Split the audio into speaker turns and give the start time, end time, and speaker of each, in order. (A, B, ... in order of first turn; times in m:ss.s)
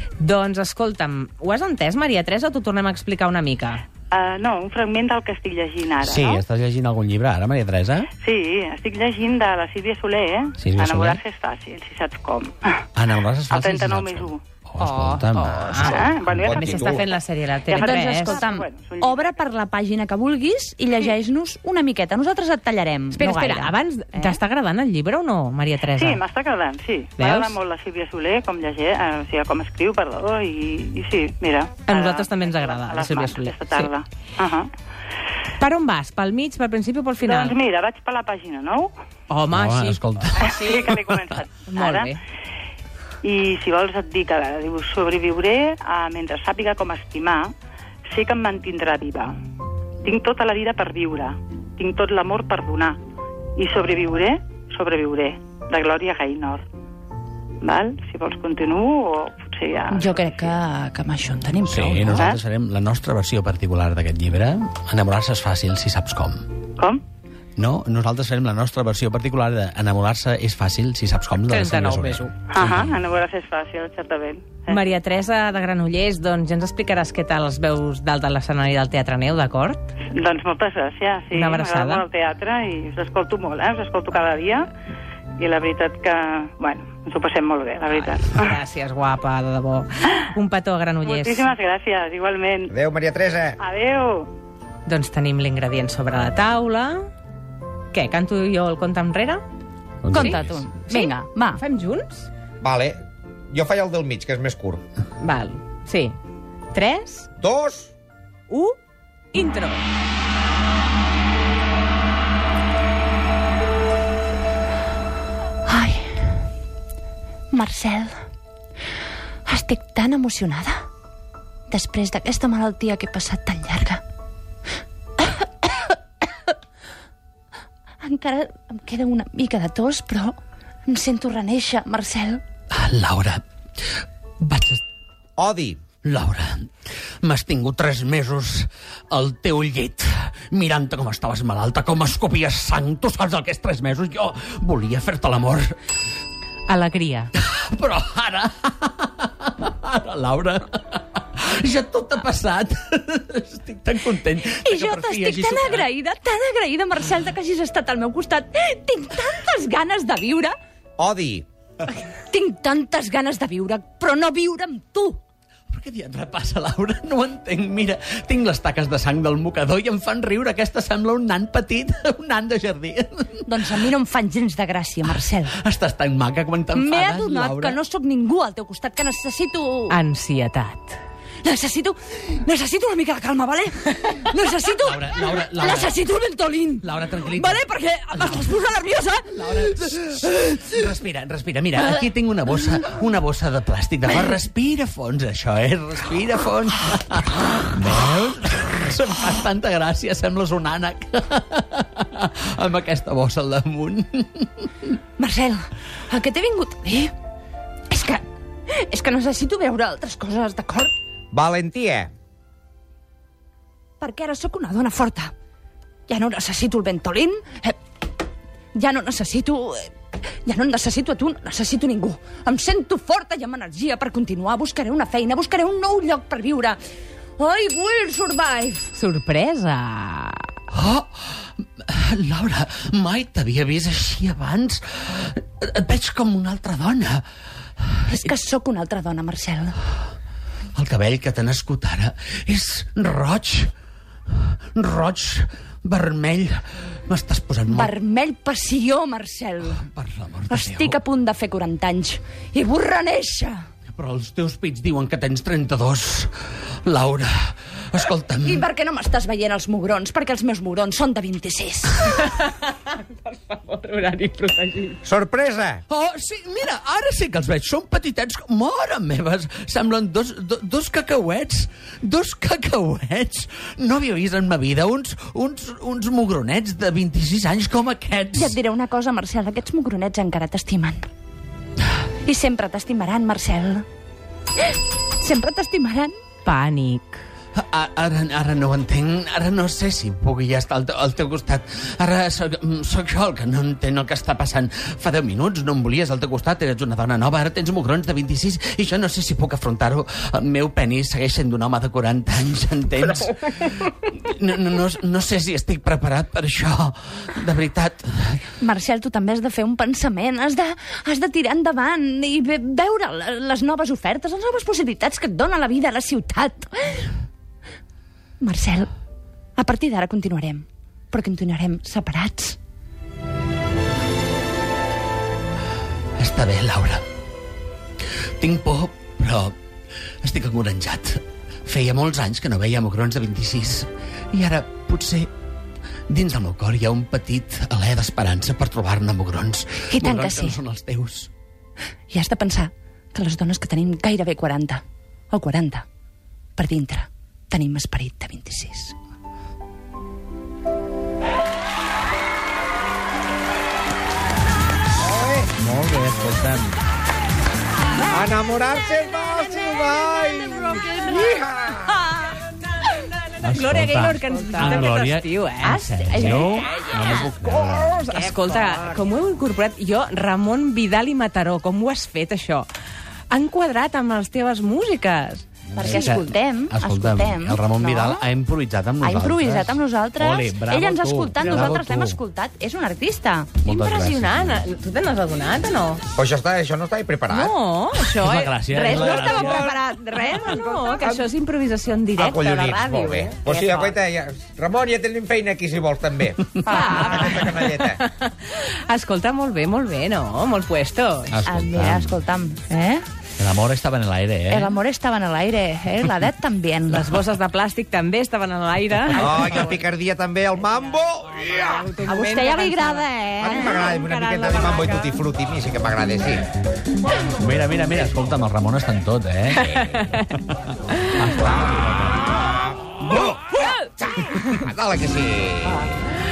0:00.2-0:03.8 A
0:04.1-0:06.4 B
0:06.0-0:08.1 C
0:08.2-0:12.8 B
0:10.6-0:11.2 C
0:13.0-0:16.7 C
0:13.5-0:14.4 B
0:14.8-0:18.4 A
0:15.7-0:19.4 B
0:16.5-0:16.9 D
0:17.8-0:24.4 E
0:23.1-0:26.2 A
0:26.0-0:34.7 B
0:27.2-0:27.6 A
0:31.9-0:33.9 A
0:35.6-0:37.6 A
0:37.2-0:38.9 B
0:39.3-0:40.8 A
0:39.5-0:40.9 C
0:40.4-0:42.2 B
0:41.7-0:42.2 A
0:43.2-0:47.5 B
0:48.1-0:49.4 B
0:50.0-0:53.0 B
0:53.6-0:56.6 B
0:57.6-1:00.5 B
0:59.9-1:02.3 E
1:01.6-1:06.5 C
1:07.6-1:13.0 C
1:11.4-1:12.3 A
1:12.5-1:14.8 B
1:14.7-1:19.9 A
1:20.1-1:24.7 B
1:21.3-1:22.0 A
1:25.4-1:28.6 B
1:27.9-1:31.5 A
1:31.0-1:32.7 B
1:32.7-1:33.6 D
1:33.6-1:34.3 B
1:34.9-1:37.1 A
1:37.9-1:39.4 A
1:40.0-1:40.6 C
1:40.1-1:41.6 E
1:40.1-1:42.3 A
1:42.6-1:43.0 D
1:43.5-1:44.8 D
1:45.2-1:46.2 A
1:46.7-1:47.3 A
1:47.4-1:47.9 D
1:48.5-1:48.8 A
1:49.3-1:49.8 A
1:55.7-1:56.3 E
1:57.5-1:58.2 E
1:59.5-2:00.8 E
2:01.7-2:04.0 E
2:05.2-2:06.0 E
2:08.0-2:12.4 E
2:12.7-2:14.8 C
2:15.4-2:15.8 D
2:16.0-2:16.7 C
2:17.2-2:25.8 C
2:26.7-2:27.3 A
2:27.4-2:35.9 C
2:34.6-2:40.5 E
2:41.0-2:41.5 D
2:41.9-2:45.2 E
2:45.7-2:53.8 C
2:53.5-2:55.5 E
2:55.3-2:57.8 C
2:56.7-3:00.0 E
2:59.9-3:01.0 A
3:01.4-3:09.8 E
3:04.8-3:06.0 C
3:06.8-3:08.5 C
3:09.3-3:24.9 C
3:25.2-3:27.1 E
3:27.9-3:30.9 E
3:31.3-3:32.1 D
3:34.0-3:35.3 E
3:36.1-3:37.8 E
3:38.8-3:39.9 E
3:40.5-3:46.8 E
3:47.4-3:48.9 E
3:48.9-3:50.5 A
3:50.7-3:57.2 C
3:57.9-3:58.2 C
3:58.1-3:59.8 E
4:00.8-4:03.7 C
4:04.3-4:07.9 C
4:07.7-4:09.9 E
4:09.8-4:11.0 C
4:10.5-4:13.6 E
4:14.0-4:18.6 C
4:18.4-4:22.3 E
4:22.0-4:25.0 A
4:25.0-4:25.8 D
4:25.9-4:38.6 C
4:38.4-4:41.0 E
4:42.2-4:43.8 E
4:45.2-4:46.2 E
4:46.4-4:47.2 A
4:47.6-5:08.4 C
5:08.6-5:17.1 E
5:18.4-5:18.9 E
5:19.6-5:22.6 E
5:26.2-5:27.0 C
5:28.2-5:29.6 C
5:30.2-5:35.3 C
5:36.1-5:41.3 C
5:39.9-5:40.6 E
5:42.1-5:45.8 E
5:46.6-5:49.0 E
5:55.0-5:55.5 D
5:55.5-5:56.8 C
5:58.1-6:02.0 D
6:03.4-6:08.0 C
6:03.4-6:06.7 A
6:08.0-6:12.7 A
6:13.3-6:16.1 A
6:15.7-6:22.2 C
6:15.8-6:18.2 E
6:19.0-6:23.5 E
6:23.6-6:24.6 C
6:23.6-6:26.0 A
6:26.2-6:27.5 D
6:27.3-6:34.0 A
6:28.1-6:29.7 C
6:28.8-6:31.2 E
6:30.6-6:31.2 D
6:32.2-6:38.0 D
6:36.6-6:37.5 E
6:36.7-6:41.4 A
6:41.3-6:42.2 C
6:41.5-6:43.0 E
6:43.4-6:44.7 C
6:44.5-6:47.1 E
6:46.9-6:49.8 A
6:49.2-6:51.9 D
6:51.6-6:55.1 A
6:52.0-6:53.8 E
6:53.4-6:56.5 D
6:57.4-7:00.6 C
6:59.5-7:00.3 A
7:01.1-7:02.2 C
7:03.0-7:03.4 D
7:03.1-7:04.6 A
7:04.0-7:05.9 D